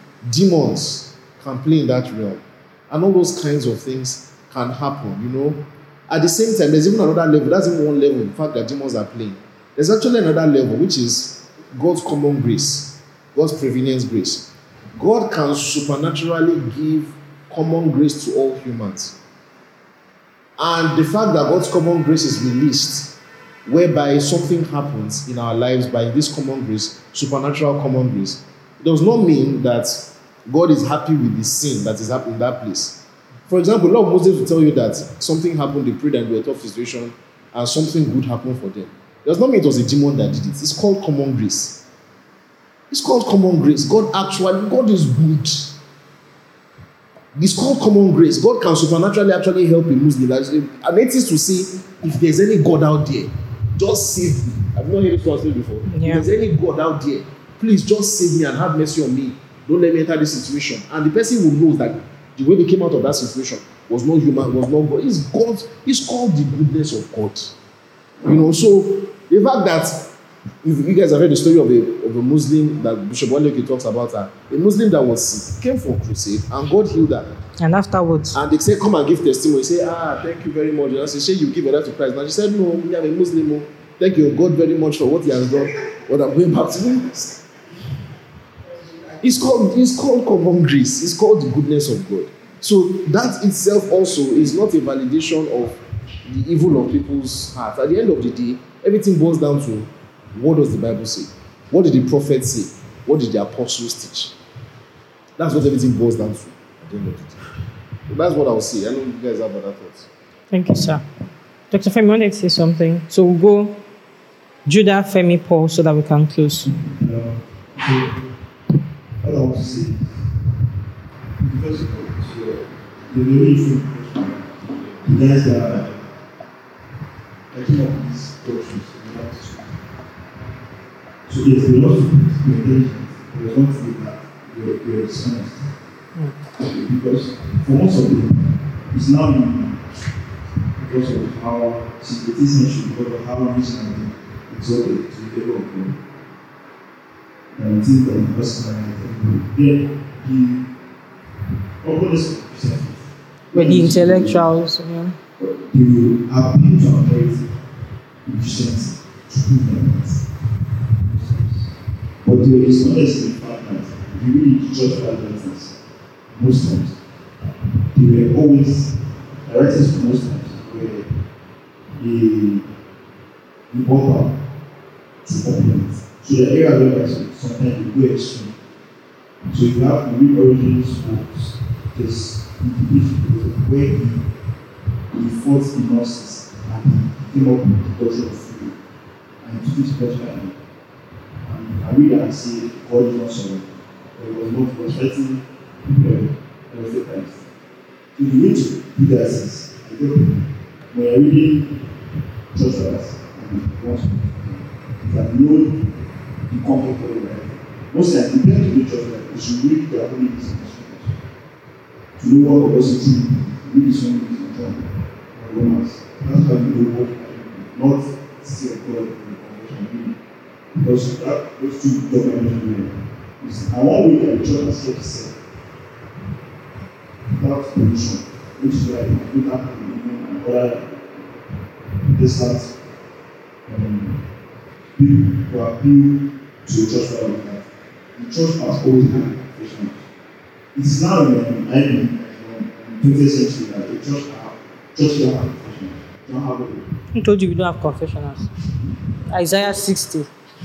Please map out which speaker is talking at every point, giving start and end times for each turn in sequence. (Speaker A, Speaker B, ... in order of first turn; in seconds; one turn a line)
Speaker A: 0.2-19.1
Speaker A: 20.6-41.8
Speaker A: 42.9-45.7
Speaker A: 47.3-67.5
Speaker B: 55.9-56.2
Speaker A: 68.2-70.1
Speaker A: 70.6-77.3
Speaker B: 77.6-78.4
Speaker A: 78.3-87.4
Speaker A: 89.1-104.3
Speaker A: 105.4-107.5
Speaker A: 108.1-110.1
Speaker B: 110.5-111.0
Speaker B: 111.7-113.8
Speaker B: 114.7-116.7
Speaker C: 116.9-118.2
Speaker C: 119.2-120.3
Speaker C: 121.4-126.2
Speaker C: 127.5-129.9
Speaker C: 131.3-135.7
Speaker C: 136.5-139.8
Speaker C: 140.8-146.0
Speaker C: 147.5-150.7
Speaker C: 151.8-154.5
Speaker B: 153.5-155.2
Speaker C: 155.4-157.6
Speaker C: 158.2-160.2
Speaker C: 161.0-165.8
Speaker C: 166.3-171.1
Speaker C: 171.9-172.7
Speaker C: 173.7-174.4
Speaker C: 175.2-178.6
Speaker C: 179.4-184.3
Speaker C: 185.1-188.8
Speaker C: 189.4-190.6
Speaker C: 191.4-197.4
Speaker C: 198.2-201.9
Speaker C: 202.5-205.9
Speaker C: 206.5-211.2
Speaker C: 212.2-220.2
Speaker C: 220.7-225.4
Speaker C: 227.3-231.3
Speaker C: 232.1-232.8
Speaker C: 233.7-234.3
Speaker C: 234.9-240.0
Speaker C: 240.7-246.9
Speaker B: 247.1-248.5
Speaker B: 249.3-250.3